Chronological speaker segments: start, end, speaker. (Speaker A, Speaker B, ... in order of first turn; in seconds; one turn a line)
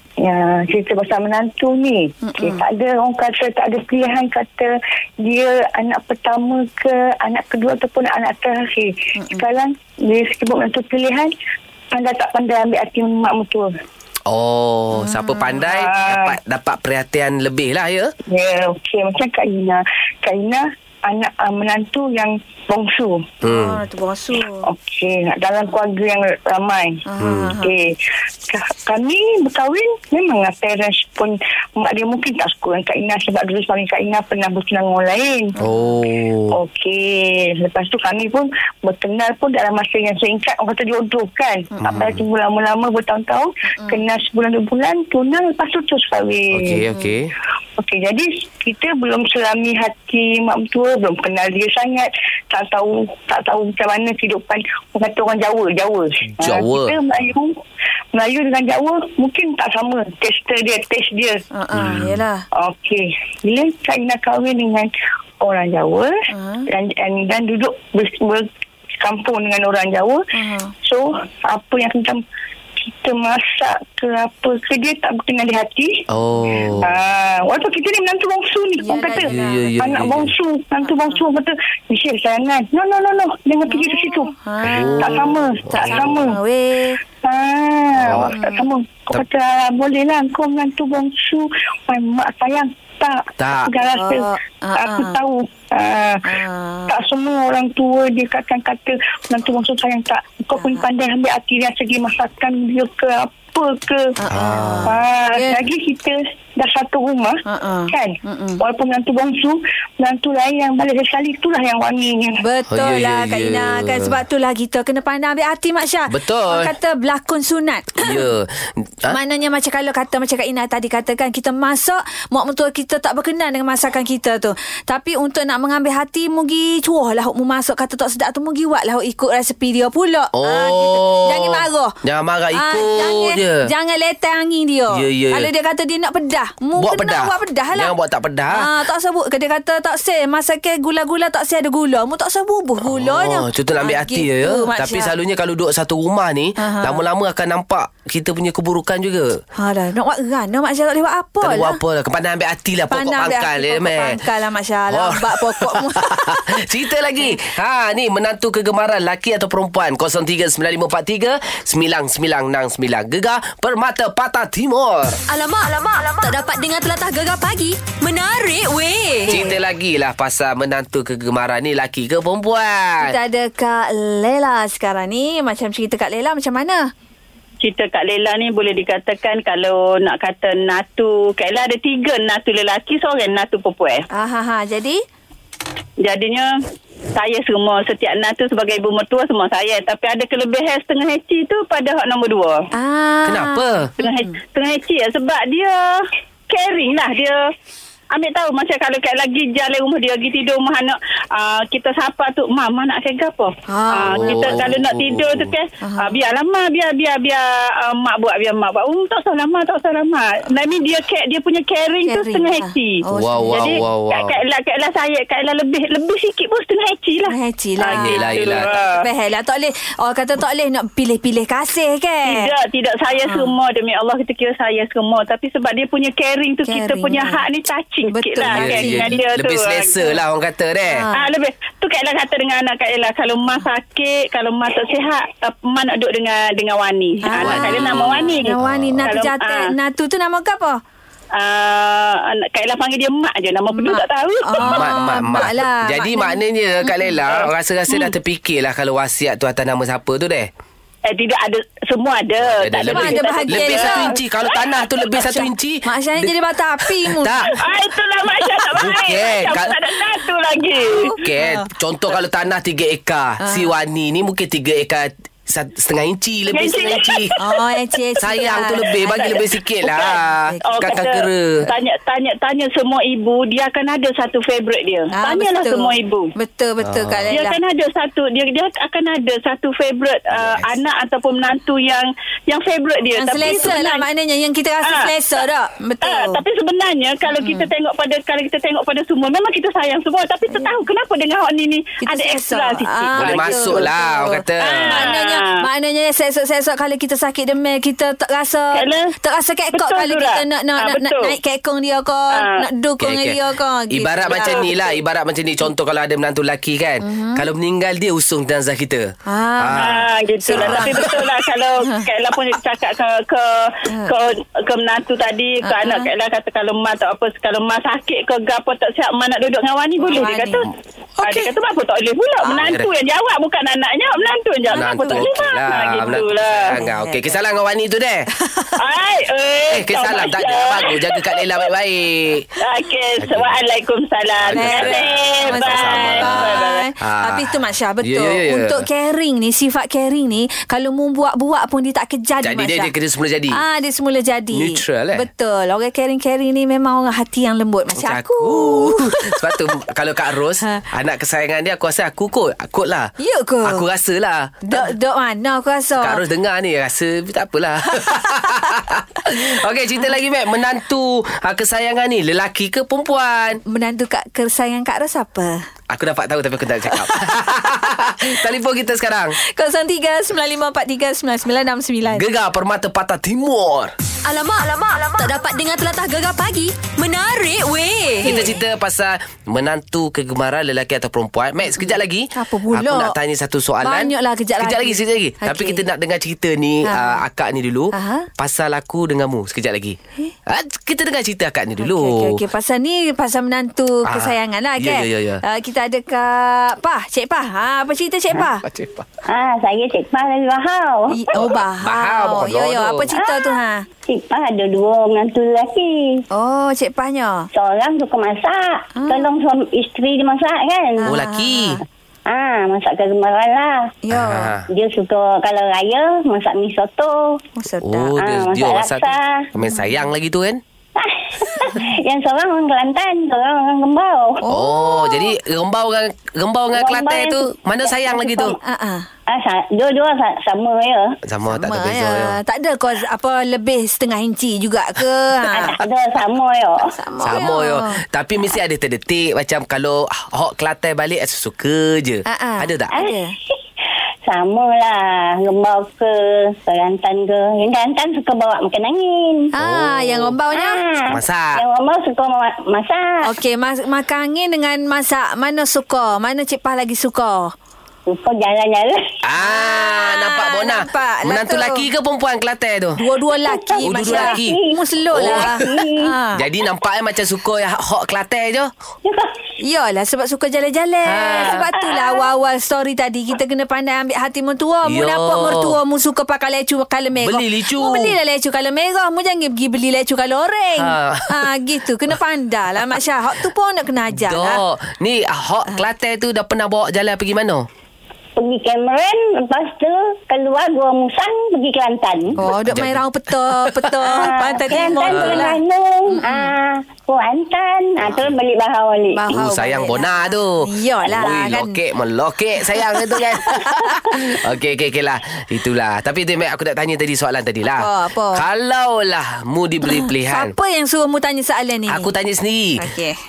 Speaker A: 0.2-11.3
Speaker B: 2.2-2.6
Speaker B: 9.2-9.4
Speaker A: 11.9-13.7
Speaker C: 14.3-18.1
Speaker B: 14.9-15.6
Speaker A: 15.6-16.4
Speaker A: 18.3-23.3
Speaker C: 23.4-23.8
Speaker B: 23.4-24.7
Speaker A: 24.6-27.0
Speaker B: 27.1-27.8
Speaker C: 27.2-27.6
Speaker A: 27.6-27.9
Speaker A: 28.5-35.5
Speaker B: 35.6-35.9
Speaker C: 35.6-36.6
Speaker A: 36.5-46.8
Speaker B: 41.8-42.0
Speaker C: 41.8-42.2
Speaker B: 43.8-44.0
Speaker C: 46.5-47.3
Speaker A: 47.8-57.5
Speaker C: 56.4-57.0
Speaker A: 58.1-61.4
Speaker B: 61.5-62.5
Speaker C: 61.7-62.2
Speaker A: 62.5-68.5
Speaker B: 66.3-66.7
Speaker A: 69.0-70.2
Speaker B: 70.3-70.7
Speaker A: 70.8-72.2
Speaker A: 72.8-76.0
Speaker C: 76.1-77.0
Speaker A: 76.8-84.3
Speaker B: 78.8-79.7
Speaker C: 79.2-80.3
Speaker B: 80.8-81.2
Speaker B: 83.7-87.0
Speaker C: 84.6-86.3
Speaker A: 84.8-86.4
Speaker A: 87.2-96.4
Speaker C: 88.0-88.3
Speaker B: 88.3-88.7
Speaker C: 93.4-93.7
Speaker B: 93.9-95.2
Speaker B: 96.2-97.0
Speaker A: 96.9-104.2
Speaker B: 100.6-100.9
Speaker B: 104.2-105.6
Speaker C: 104.3-105.0
Speaker A: 104.8-112.4
Speaker B: 107.5-108.6
Speaker B: 112.4-118.3
Speaker C: 112.7-114.2
Speaker C: 116.1-116.7
Speaker C: 118.0-119.2
Speaker B: 119.1-131.9
Speaker C: 130.3-133.7
Speaker B: 132.5-137.9
Speaker C: 134.9-135.5
Speaker C: 136.8-138.7
Speaker B: 138.5-145.1
Speaker C: 142.8-149.4
Speaker B: 146.6-147.0
Speaker B: 149.6-151.8
Speaker C: 151.4-154.2
Speaker B: 152.9-156.6
Speaker C: 154.9-165.2
Speaker D: 165.3-169.4
Speaker B: 169.3-169.6
Speaker C: 169.3-173.2
Speaker B: 173.0-176.9
Speaker E: 177.6-184.1
Speaker B: 184.1-185.0
Speaker E: 186.0-186.5
Speaker E: 187.2-192.7
Speaker B: 192.7-194.3
Speaker C: 193.3-193.9
Speaker E: 194.0-197.4
Speaker E: 198.1-219.1
Speaker B: 203.7-204.7
Speaker C: 204.0-205.5
Speaker B: 205.8-206.2
Speaker B: 212.1-213.8
Speaker C: 213.1-214.4
Speaker B: 217.3-222.5
Speaker C: 217.9-218.7
Speaker E: 222.3-230.0
Speaker B: 223.3-223.5
Speaker B: 226.7-227.4
Speaker B: 228.1-229.2
Speaker C: 228.4-231.1
Speaker B: 230.9-231.3
Speaker E: 231.1-239.7
Speaker B: 237.2-240.8
Speaker C: 237.4-239.2
Speaker E: 241.3-245.0
Speaker B: 243.7-247.1
Speaker C: 244.6-250.5
Speaker E: 251.1-254.7
Speaker C: 252.4-257.6
Speaker B: 252.9-254.2
Speaker B: 255.2-257.5
Speaker E: 257.5-261.1
Speaker C: 258.7-259.8
Speaker B: 260.9-261.7
Speaker C: 261.1-267.4
Speaker B: 263.4-263.7
Speaker E: 266.5-267.4
Speaker B: 267.4-269.5
Speaker C: 268.2-271.6
Speaker E: 269.2-270.1
Speaker B: 270.4-270.9
Speaker E: 270.6-276.3
Speaker B: 275.1-277.6
Speaker C: 276.8-277.4
Speaker E: 277.3-284.1
Speaker C: 280.3-280.7
Speaker B: 283.1-286.4
Speaker C: 283.4-283.7
Speaker E: 284.8-285.1
Speaker E: 286.0-293.9
Speaker B: 287.3-287.7
Speaker B: 292.0-304.7
Speaker C: 293.2-295.1
Speaker E: 294.6-295.6
Speaker E: 298.7-299.1
Speaker E: 299.7-301.4
Speaker E: 302.3-302.7
Speaker C: 303.0-303.4
Speaker C: 303.9-311.2
Speaker E: 304.3-305.0
Speaker B: 307.0-307.5
Speaker B: 309.3-309.9
Speaker E: 309.8-326.8
Speaker B: 310.4-311.2
Speaker B: 315.6-316.1
Speaker B: 320.0-320.6
Speaker C: 322.5-322.9
Speaker B: 324.7-325.4
Speaker C: 324.7-328.3
Speaker B: 326.7-327.4
Speaker B: 328.4-328.7
Speaker E: 328.8-331.4
Speaker C: 329.7-332.5
Speaker E: 332.6-336.9
Speaker C: 333.2-333.6
Speaker C: 334.4-338.9
Speaker B: 334.5-342.9
Speaker C: 342.4-343.6
Speaker B: 343.5-349.6
Speaker C: 344.5-345.3
Speaker C: 347.9-353.1
Speaker B: 353.2-353.8
Speaker C: 353.6-354.9
Speaker B: 354.7-356.2
Speaker C: 356.0-363.6
Speaker B: 363.7-365.7
Speaker C: 365.9-369.4
Speaker B: 369.4-372.3
Speaker C: 372.1-373.9
Speaker D: 374.2-378.3
Speaker C: 378.2-392.4
Speaker B: 378.2-378.6
Speaker B: 381.8-383.1
Speaker B: 383.8-385.8
Speaker B: 386.9-387.2
Speaker B: 387.9-388.3
Speaker B: 391.8-398.6
Speaker C: 394.1-395.4
Speaker C: 398.4-399.1
Speaker F: 399.3-401.4
Speaker B: 401.1-403.9
Speaker C: 401.4-403.1
Speaker F: 403.1-406.2
Speaker B: 406.3-407.5
Speaker F: 407.5-411.1
Speaker B: 409.0-409.3
Speaker B: 411.0-411.8
Speaker C: 411.1-411.8
Speaker F: 412.3-413.9
Speaker B: 414.1-414.5
Speaker C: 414.1-414.7
Speaker F: 414.7-417.3
Speaker B: 417.6-418.2
Speaker C: 417.8-420.6
Speaker F: 418.2-419.5
Speaker F: 421.0-424.4
Speaker B: 424.4-425.3
Speaker C: 424.5-428.6
Speaker F: 426.7-428.6
Speaker B: 428.6-429.1
Speaker F: 429.3-431.2
Speaker C: 431.2-432.4
Speaker B: 431.5-435.8
Speaker F: 435.5-436.9
Speaker B: 436.9-438.0
Speaker C: 437.2-442.9
Speaker B: 442.3-443.3
Speaker F: 442.9-443.5
Speaker F: 444.3-449.5
Speaker B: 449.5-450.8
Speaker C: 449.6-450.3
Speaker F: 450.5-453.3
Speaker C: 451.1-451.6
Speaker B: 453.2-457.5
Speaker F: 458.1-459.1
Speaker C: 459.2-463.0
Speaker B: 459.4-461.9
Speaker B: 463.0-466.4
Speaker F: 463.4-466.1
Speaker C: 463.8-464.6
Speaker C: 465.1-465.7
Speaker C: 466.4-468.7
Speaker F: 469.1-469.4
Speaker B: 469.6-484.6
Speaker C: 471.1-471.7
Speaker F: 471.5-472.2
Speaker C: 474.9-475.8
Speaker C: 477.2-478.2
Speaker C: 480.8-481.5
Speaker C: 484.1-487.7
Speaker F: 488.4-492.4
Speaker B: 492.4-496.5
Speaker C: 492.4-494.2
Speaker F: 494.1-499.3
Speaker C: 495.0-495.5
Speaker B: 499.1-501.8
Speaker C: 499.3-510.5
Speaker B: 502.8-504.2
Speaker B: 507.8-508.4
Speaker B: 509.9-512.1
Speaker C: 511.9-512.8
Speaker B: 512.8-513.2